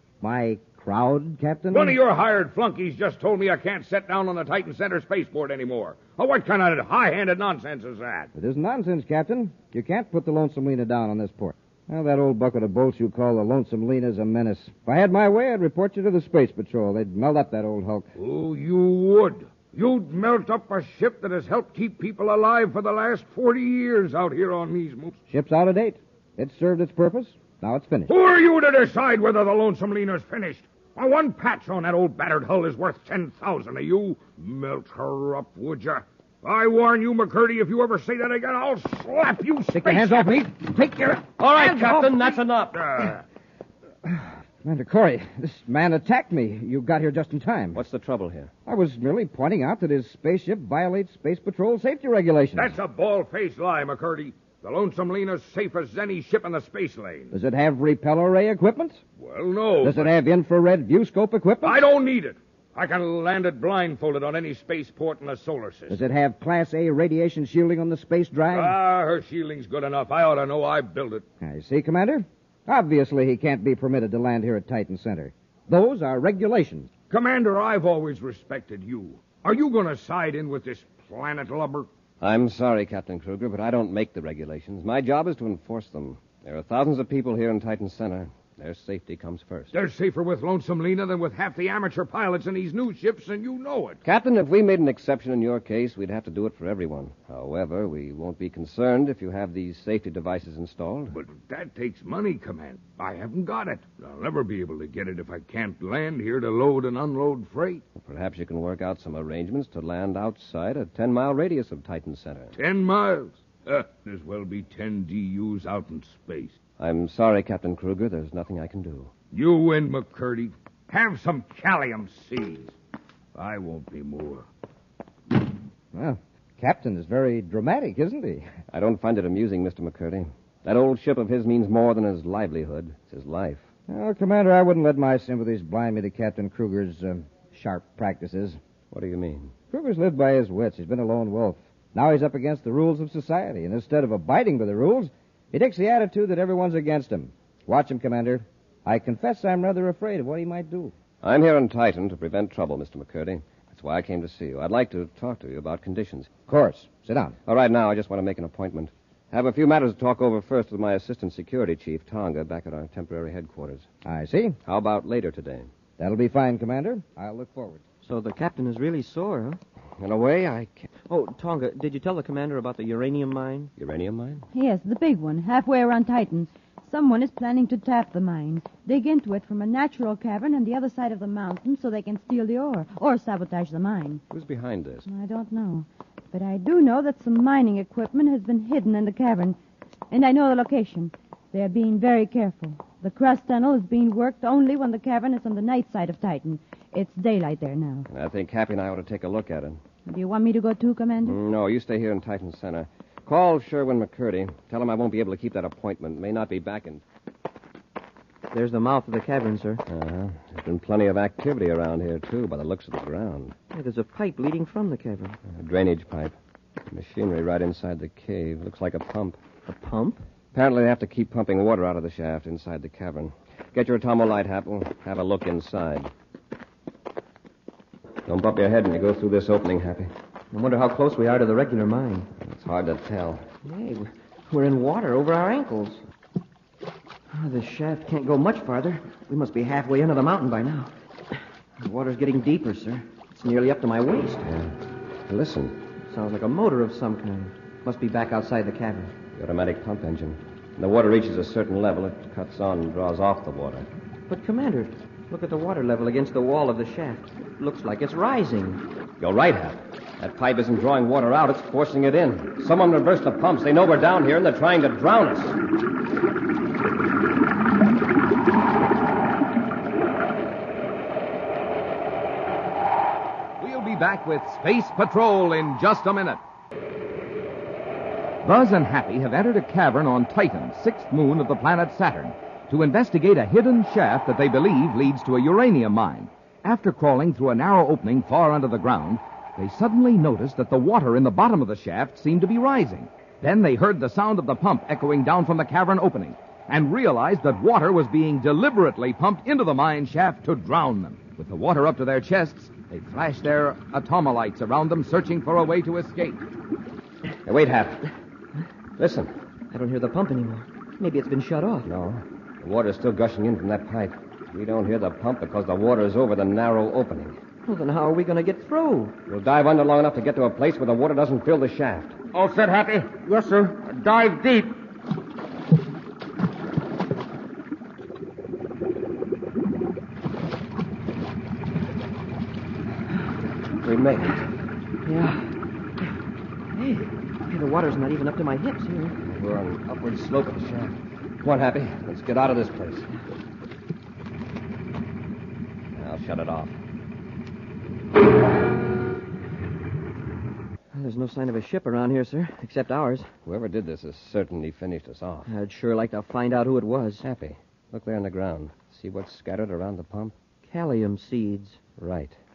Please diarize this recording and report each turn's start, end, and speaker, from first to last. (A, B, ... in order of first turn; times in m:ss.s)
0:00.2-0:02.0 A
0:01.7-0:08.3 B
0:08.4-0:18.1 A
0:18.2-0:25.1 B
0:25.3-0:28.1 A
0:28.1-0:40.3 B
0:39.8-0:42.3 A
0:41.4-0:43.2 C
0:44.0-0:47.8 A
0:47.7-0:48.5 C
0:48.7-0:52.8 A
0:52.6-0:57.3 B
0:57.3-0:59.0 A
0:59.2-1:00.1 B
0:59.8-1:01.8 A
1:01.6-1:06.0 B
1:05.9-1:08.8 A
1:08.5-1:11.2 B
1:11.4-1:16.9 A
1:17.1-1:21.9 B
1:22.2-1:29.7 C
1:29.7-1:34.0 B
1:34.0-1:41.2 C
1:41.2-1:47.8 B
1:48.0-1:52.6 C
1:52.6-1:56.5 B
1:56.8-1:59.1 C
1:59.3-2:02.7 B
2:03.4-2:04.4 B
2:05.9-2:08.5 A
2:08.7-2:13.6 C
2:13.9-2:18.6 A
2:18.9-2:19.5 C
2:19.7-2:30.9 A
2:31.2-2:36.3 C
2:36.5-2:37.4 A
2:37.5-2:43.8 C
2:44.0-2:44.6 A
2:44.6-2:45.7 C
2:46.0-2:47.8 A
2:48.0-2:49.6 D
2:50.0-2:50.9 C
2:51.1-2:53.7 D
2:53.8-2:54.5 C
2:54.5-3:04.2 E
3:04.3-3:05.1 C
3:05.1-3:09.6 E
3:10.1-3:18.1 E
3:18.1-3:19.8 C
3:20.1-3:21.4 E
3:21.2-3:27.0 C
3:28.5-3:29.8 D
3:29.9-3:33.6 C
3:33.7-3:35.4 D
3:35.5-3:36.4 C
3:36.9-3:39.4 C
3:39.7-3:40.2 D
3:40.5-3:46.1 C
3:48.2-3:50.1 C
3:50.5-3:52.3 D
3:52.4-3:53.5 C
3:53.6-3:56.0 D
3:57.3-4:00.9 D
4:01.8-4:04.5 D
4:04.4-4:04.8 C
4:05.3-4:05.8 C
4:06.1-4:09.2 D
4:09.3-4:13.9 C
4:14.3-4:18.8 D
4:19.2-4:25.6 C
4:33.6-4:36.4 F
4:38.4-5:06.4 F
5:07.4-5:08.1 C
5:09.0-5:09.3 C
5:09.7-5:11.9 D
5:11.8-5:17.4 C
5:17.7-5:19.2 D
5:19.3-5:22.2 C
5:22.4-5:24.7 B
5:33.8-5:34.5 C
5:35.0-5:35.5 D
5:36.8-5:39.2 D
5:39.2-5:43.1 C
5:46.0-5:46.8 C
5:50.9-5:53.3 D
5:53.4-5:55.5 C
5:55.5-5:57.2 D
5:57.2-6:00.3 C
6:00.6-6:01.8 D
6:02.0-6:02.4 C